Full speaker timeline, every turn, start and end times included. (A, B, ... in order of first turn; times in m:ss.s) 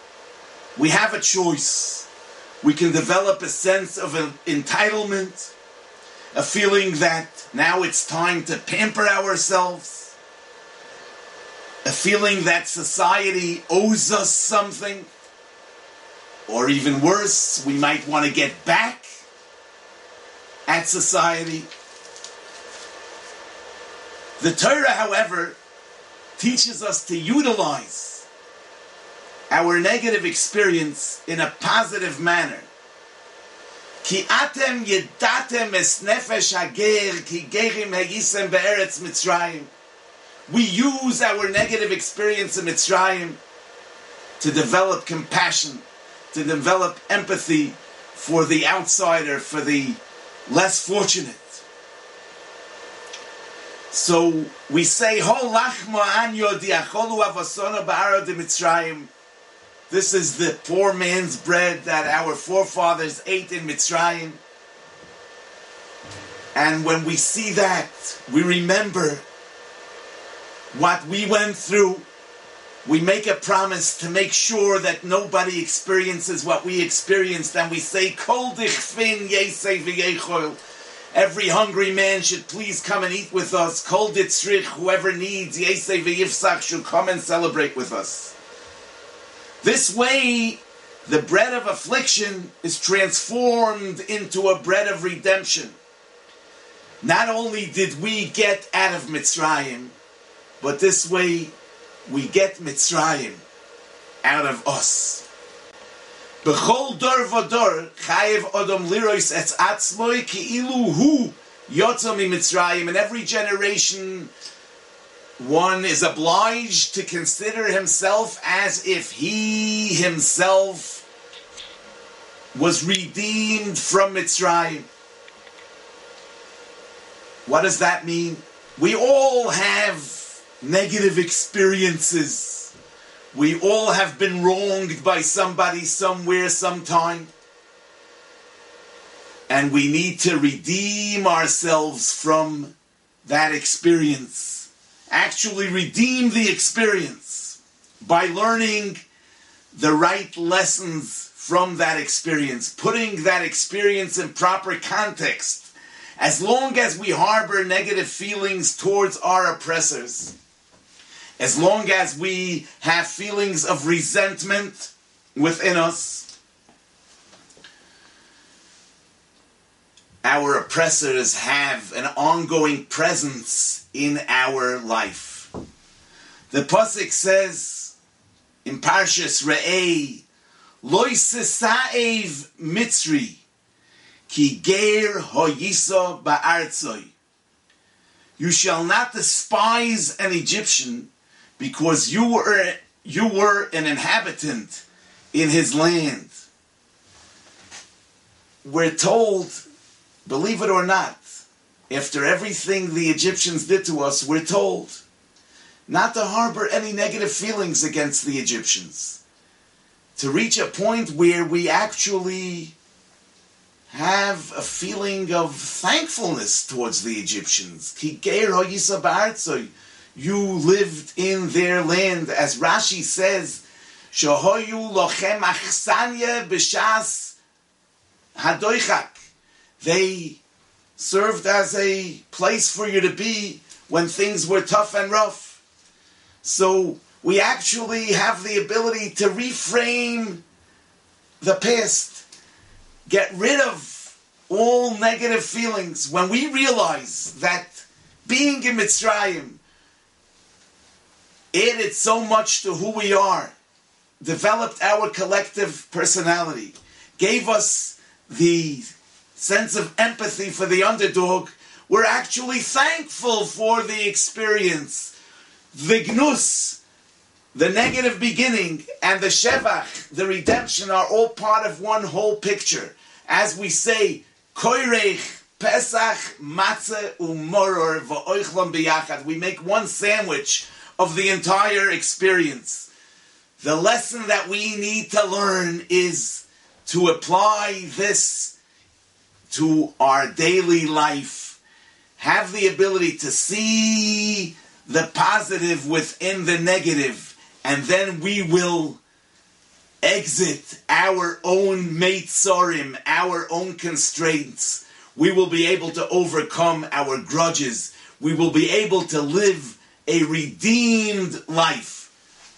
0:00.8-0:02.1 A
0:02.6-0:05.5 A
0:06.3-0:10.1 A
0:11.8-0:15.1 A
0:16.5-0:19.1 A
0:20.7-0:21.7 A
0:24.4-0:25.6 A
0:26.4-0:28.3 A
0:29.5-0:32.7 A
0:34.0-0:39.7 A
0:40.5-0:43.4 A
0:44.4-0:51.6 A
0:53.9-0:59.1 A
0:59.9-1:04.4 A
1:06.5-1:09.2 A
1:10.7-1:12.0 A
1:12.8-1:20.6 A
1:21.1-1:28.4 A
1:29.6-1:35.8 A
1:37.0-1:39.9 A
1:40.6-1:41.5 A
1:42.1-1:43.4 A
1:44.2-1:45.2 A
1:46.4-1:54.3 A
1:55.4-2:01.0 A
2:02.5-2:04.9 A
2:07.4-2:12.7 A
2:13.3-2:17.3 A
2:19.5-2:29.0 A
2:29.7-2:40.3 A
2:41.4-2:46.3 A
2:50.2-2:55.5 A
2:56.5-2:57.9 A
2:58.6-3:00.2 A
3:00.8-3:03.4 A
3:04.3-3:07.1 A
3:08.4-3:16.3 A
3:18.6-3:19.6 A
3:20.2-3:21.3 A
3:21.9-3:25.0 A
3:25.9-3:29.2 A
3:30.2-3:32.7 A
3:33.9-3:47.4 A
3:48.3-3:49.2 A
3:49.8-3:50.4 A
3:51.0-3:55.6 A
3:56.4-4:00.4 A
4:01.4-4:02.2 A
4:03.1-4:09.6 A
4:11.5-4:13.5 A
4:14.2-4:25.1 A
4:25.7-4:26.8 A
4:27.5-4:42.9 A
4:43.6-4:48.6 A
4:49.5-4:51.6 A
4:52.2-4:59.0 A
5:00.0-5:12.1 A